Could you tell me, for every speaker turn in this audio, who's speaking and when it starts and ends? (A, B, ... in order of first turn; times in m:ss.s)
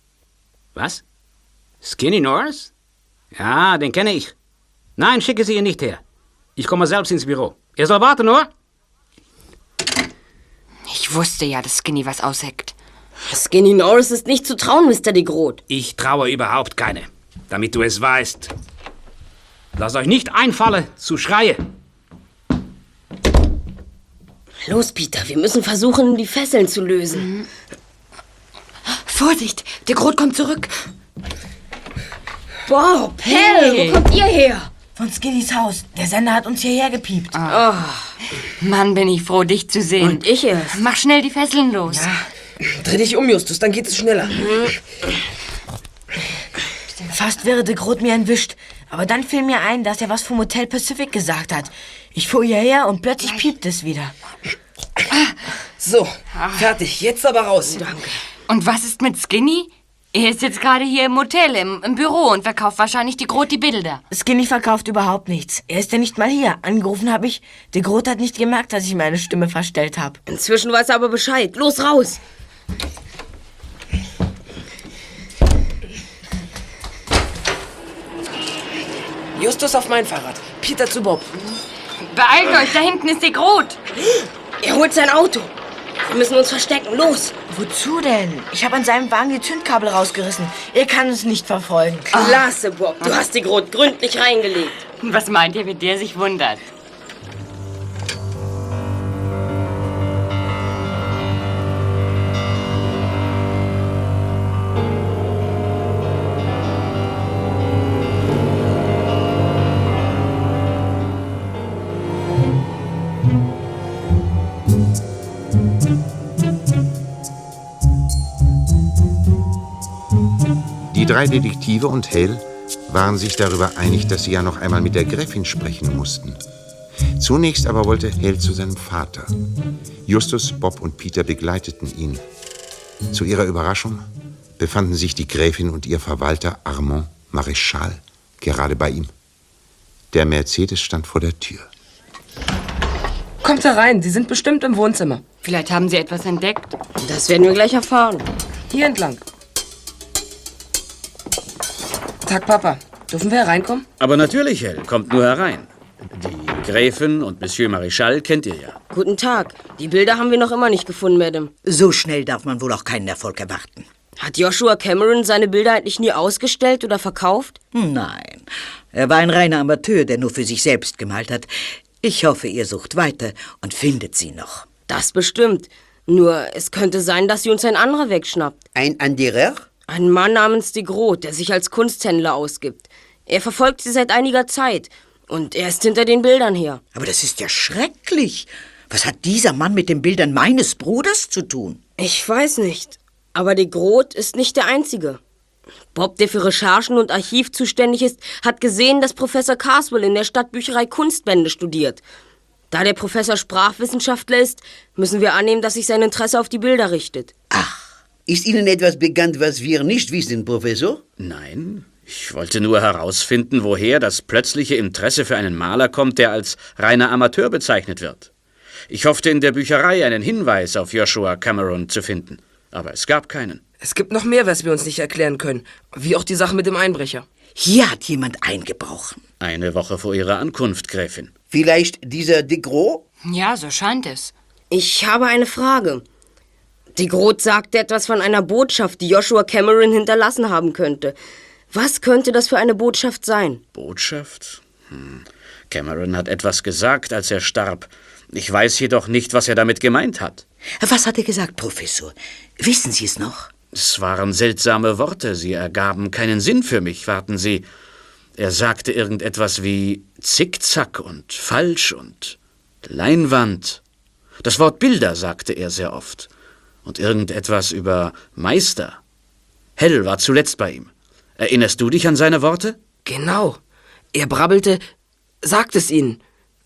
0:00.7-0:01.0 A
0:01.8-0:02.7 A
0:03.3-0:04.3 A
0:05.0-0:06.0 A
0:06.6-0:08.5 A
0:10.9-0:12.7 B
0:13.3-0:15.6 C
0:15.7-0:18.5 A
0:19.8-0:21.6 A
0:24.6-0:27.3 C
0:27.1-0:27.5 B
0:28.9-0:30.7 B
0:32.6-0:34.7 C
0:33.2-0:34.0 B
0:35.0-0:37.4 D
0:37.3-0:37.6 B
0:37.5-0:38.1 C
0:38.6-0:42.2 B
0:40.0-0:40.8 C
0:41.9-0:42.2 D
0:42.6-0:44.5 E
0:44.4-0:44.7 C
0:47.1-0:54.1 D
0:55.8-0:58.0 E
0:56.4-0:56.7 B
0:58.5-1:04.0 B
1:04.1-1:10.2 D
1:10.3-1:12.2 C
1:19.4-1:21.4 E
1:22.0-1:23.8 B
1:24.6-1:25.5 C
1:26.0-1:27.3 C
1:27.5-1:32.1 D
1:32.1-1:32.4 B
1:32.1-1:34.8 C
1:35.0-1:36.6 B
2:00.9-2:06.4 F
2:07.2-2:09.4 F
2:10.1-2:12.2 F
2:13.1-2:14.1 F
2:14.6-2:19.1 F
2:20.1-2:21.7 F
2:23.4-2:25.2 E
2:25.4-2:26.8 B
2:27.0-2:28.2 C
2:28.7-2:29.2 E
2:32.2-2:33.9 E
2:34.0-2:38.8 G
2:38.9-2:41.5 C
2:41.6-2:43.9 H
2:44.2-2:47.6 C
2:47.7-2:51.5 H
2:52.0-2:54.7 H
2:54.9-2:58.6 C
2:58.7-2:59.6 I
2:59.9-3:06.8 C
3:06.9-3:11.8 H
3:12.0-3:15.2 C
3:15.9-3:22.0 C
3:22.7-3:27.3 C
3:28.3-3:31.0 I
3:31.2-3:38.3 G
3:38.9-3:43.6 G
3:43.8-3:47.2 E
3:47.6-3:49.2 H
3:49.4-3:51.3 G
3:51.5-3:53.0 I
3:53.2-3:54.3 B
3:54.7-3:56.0 C
3:57.0-4:01.2 C
4:01.7-4:03.6 C
4:03.7-4:10.4 G
4:10.8-4:13.5 H
4:13.7-4:17.7 G
4:18.4-4:23.8 G
4:24.4-4:26.3 G
4:26.8-4:29.0 G
4:29.8-4:32.8 G
4:33.0-4:33.6 E
4:34.1-4:34.8 E
4:35.4-4:36.2 E